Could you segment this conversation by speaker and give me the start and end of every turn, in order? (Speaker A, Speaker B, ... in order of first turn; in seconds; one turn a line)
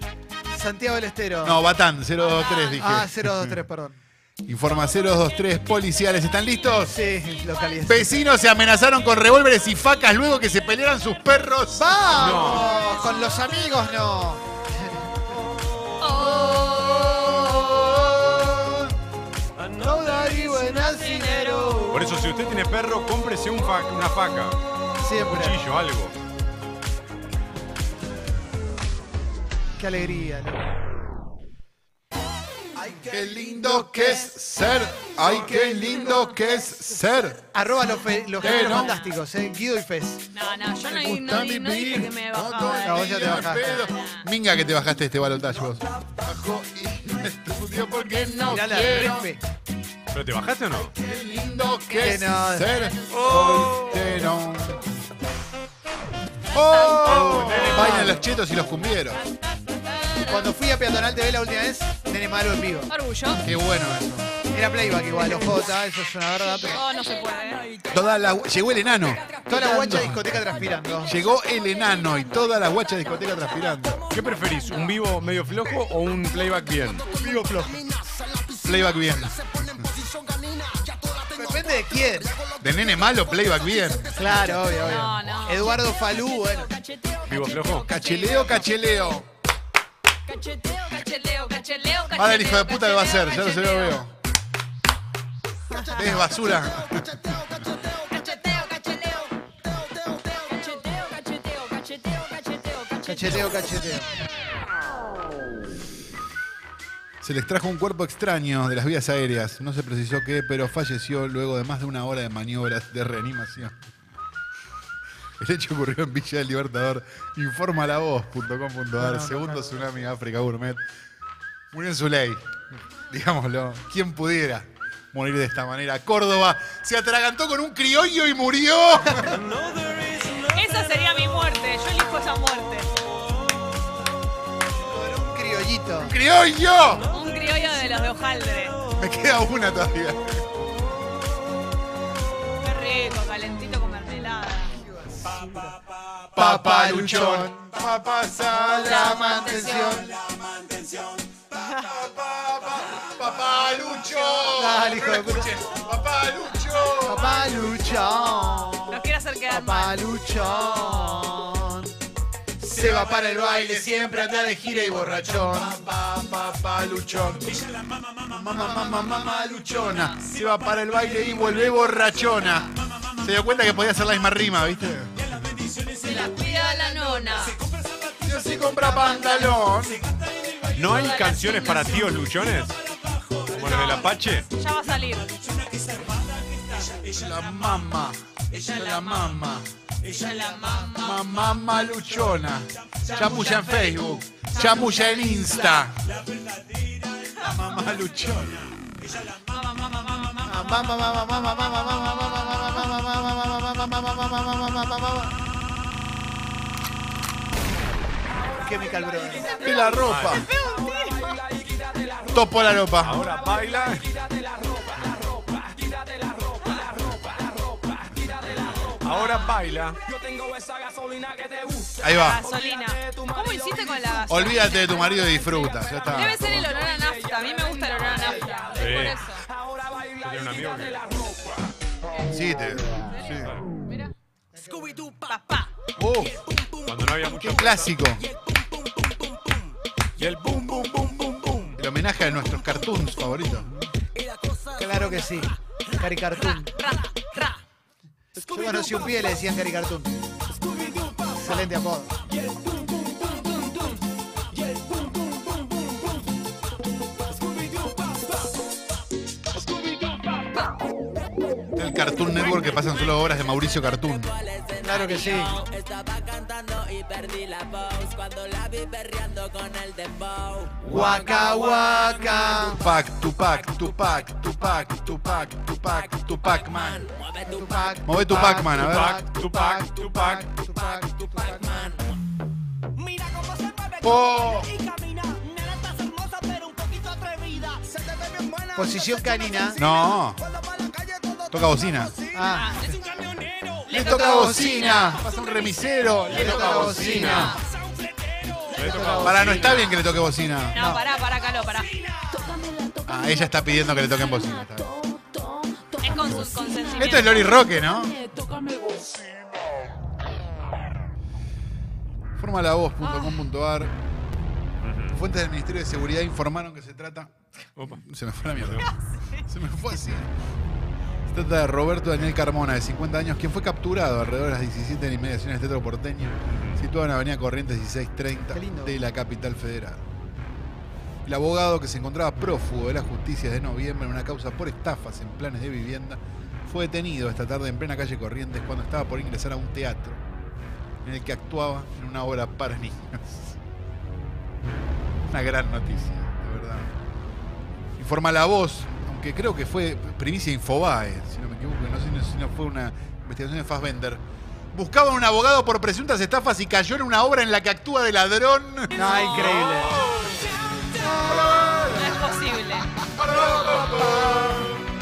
Speaker A: 0.5-1.6
Speaker B: 1.4-3.6
Speaker C: 2.3-2.8
Speaker A: 2.7-4.0
Speaker B: 4.4-7.0
Speaker A: 6.8-8.1
Speaker B: 7.8-12.4
Speaker A: 11.7-15.0
Speaker D: 12.1-12.7
Speaker C: 12.5-13.2
Speaker C: 16.0-18.3
Speaker A: 18.3-18.8
Speaker A: 19.7-22.1
Speaker C: 20.6-22.0
Speaker D: 21.9-26.1
Speaker A: 25.0-25.6
Speaker A: 29.8-30.6
Speaker E: 32.8-34.2
Speaker B: 33.1-37.4
Speaker A: 35.2-36.0
Speaker A: 37.5-40.2
Speaker B: 38.4-39.0
Speaker C: 40.3-44.3
Speaker E: 40.4-40.8
Speaker B: 40.7-49.3
Speaker A: 42.8-43.9
Speaker C: 48.2-49.1
Speaker A: 48.4-49.4
Speaker D: 50.1-50.9
Speaker B: 50.9-54.8
Speaker A: 52.0-52.9
Speaker E: 53.1-53.7
Speaker B: 56.5-59.2
Speaker C: 56.5-57.6
Speaker D: 57.0-58.2
Speaker A: 57.5-58.2
Speaker C: 59.1-60.5
Speaker A: 60.2-62.9
Speaker C: 62.9-63.4
Speaker B: 63.3-64.3
Speaker A: 64.5-66.8
Speaker C: 66.6-67.7
Speaker E: 67.3-68.2
Speaker B: 67.9-70.5
Speaker E: 69.1-69.7
Speaker A: 69.5-71.2
Speaker B: 71.0-74.1
Speaker E: 73.2-75.0
Speaker D: 74.1-77.0
Speaker E: 76.6-85.0
Speaker B: 77.1-77.8
Speaker B: 78.6-79.4
Speaker A: 81.3-82.3
Speaker B: 82.6-84.4
Speaker A: 84.1-86.7
Speaker C: 84.8-86.0
Speaker E: 86.6-86.9
Speaker D: 87.2-87.9
Speaker B: 87.8-89.3
Speaker C: 87.8-88.5
Speaker C: 90.4-94.0
Speaker B: 92.1-94.1
Speaker E: 95.7-100.9
Speaker C: 95.7-96.0
Speaker B: 95.9-97.2
Speaker C: 98.1-99.3
Speaker C: 100.5-103.5
Speaker A: 103.0-104.1
Speaker B: 107.2-113.7
Speaker B: 115.4-120.8
Speaker A: 119.0-120.0
Speaker B: 121.7-122.5
Speaker B: 123.1-129.4
Speaker A: 129.1-129.3
Speaker E: 129.3-130.7
Speaker C: 130.4-132.9
Speaker A: 134.9-136.1
Speaker B: 136.0-137.1
Speaker C: 137.1-138.8
Speaker E: 137.2-138.0
Speaker B: 138.9-140.4
Speaker C: 142.6-144.7
Speaker A: 144.8-145.8
Speaker B: 146.3-149.2
Speaker A: 146.3-147.6
Speaker A: 148.5-150.1
Speaker C: 148.8-150.1
Speaker E: 150.3-151.1
Speaker C: 151.6-151.9
Speaker B: 151.7-157.4
Speaker A: 154.5-155.5
Speaker A: 157.0-161.9
Speaker C: 158.9-161.5
Speaker A: 162.6-164.2
Speaker B: 162.6-167.6
Speaker B: 168.3-175.2
Speaker A: 168.4-169.0
Speaker E: 175.7-179.3
Speaker C: 176.0-177.6
Speaker B: 178.2-180.0
Speaker E: 180.0-180.8
Speaker D: 180.7-182.8
Speaker C: 180.8-182.1
Speaker E: 183.3-183.7
Speaker D: 183.5-184.5
Speaker C: 183.6-185.4
Speaker E: 185.6-187.2
Speaker B: 187.1-189.7
Speaker C: 190.1-191.2
Speaker B: 190.9-196.0
Speaker C: 193.1-195.9
Speaker B: 197.4-198.8
Speaker C: 199.5-201.0
Speaker A: 200.4-205.3
Speaker C: 201.9-202.7
Speaker E: 208.3-231.7
Speaker A: 208.6-209.7
Speaker B: 209.6-210.5
Speaker C: 209.8-211.4
Speaker D: 209.9-210.4
Speaker B: 212.3-213.2
Speaker D: 213.0-214.1
Speaker D: 219.0-220.0
Speaker B: 222.0-222.4
Speaker C: 222.2-225.1
Speaker B: 224.3-226.6
Speaker C: 226.1-229.4
Speaker D: 228.7-229.2
Speaker D: 230.2-231.0
Speaker B: 232.3-233.5
Speaker C: 233.1-234.1
Speaker D: 233.3-233.6
Speaker A: 234.5-235.1
Speaker E: 234.6-239.7
Speaker C: 235.3-235.7
Speaker B: 236.0-236.4
Speaker D: 236.8-237.9
Speaker B: 237.4-238.2
Speaker D: 240.2-241.8
Speaker B: 241.8-243.7
Speaker E: 244.1-245.6
Speaker A: 244.8-246.7
Speaker C: 246.3-247.6
Speaker E: 248.4-249.4
Speaker A: 248.4-250.2
Speaker E: 250.5-251.7
Speaker A: 251.3-252.1
Speaker E: 252.3-256.2
Speaker E: 257.3-258.5
Speaker E: 259.7-260.5
Speaker B: 261.8-264.4
Speaker E: 264.6-270.7
Speaker A: 264.8-265.6
Speaker C: 265.4-265.6
Speaker A: 270.8-272.8
Speaker E: 271.3-272.4
Speaker B: 272.5-277.1
Speaker E: 276.5-277.9
Speaker A: 277.4-281.9
Speaker B: 278.0-279.2
Speaker D: 278.6-280.4
Speaker E: 280.8-282.1
Speaker E: 282.9-295.9
Speaker B: 284.0-284.7
Speaker A: 288.8-289.8
Speaker B: 289.8-290.4
Speaker B: 291.5-292.1
Speaker A: 292.3-292.7
Speaker C: 292.5-293.0
Speaker B: 293.9-297.6
Speaker A: 293.9-295.2
Speaker D: 296.3-297.5
Speaker A: 296.3-297.6
Speaker E: 296.9-299.3
Speaker D: 298.7-300.1
Speaker A: 298.7-299.8
Speaker B: 299.2-300.9
Speaker C: 300.7-302.0
Speaker A: 300.8-301.1
Speaker E: 301.1-302.9
Speaker B: 303.0-304.9
Speaker C: 306.0-307.5
Speaker B: 306.9-308.2
Speaker B: 312.4-313.9
Speaker D: 314.8-315.2
Speaker B: 315.1-318.9
Speaker D: 318.6-318.9
Speaker C: 318.8-319.4
Speaker B: 319.5-320.3
Speaker B: 321.3-330.0
Speaker D: 326.5-326.8
Speaker A: 328.5-329.0
Speaker B: 331.2-340.2
Speaker B: 341.0-343.6
Speaker B: 345.3-346.9
Speaker B: 348.0-358.9
Speaker A: 358.9-360.1
Speaker D: 359.2-360.4
Speaker A: 360.9-362.4
Speaker B: 361.1-362.2
Speaker C: 361.9-363.0
Speaker B: 363.1-364.8
Speaker A: 363.2-364.7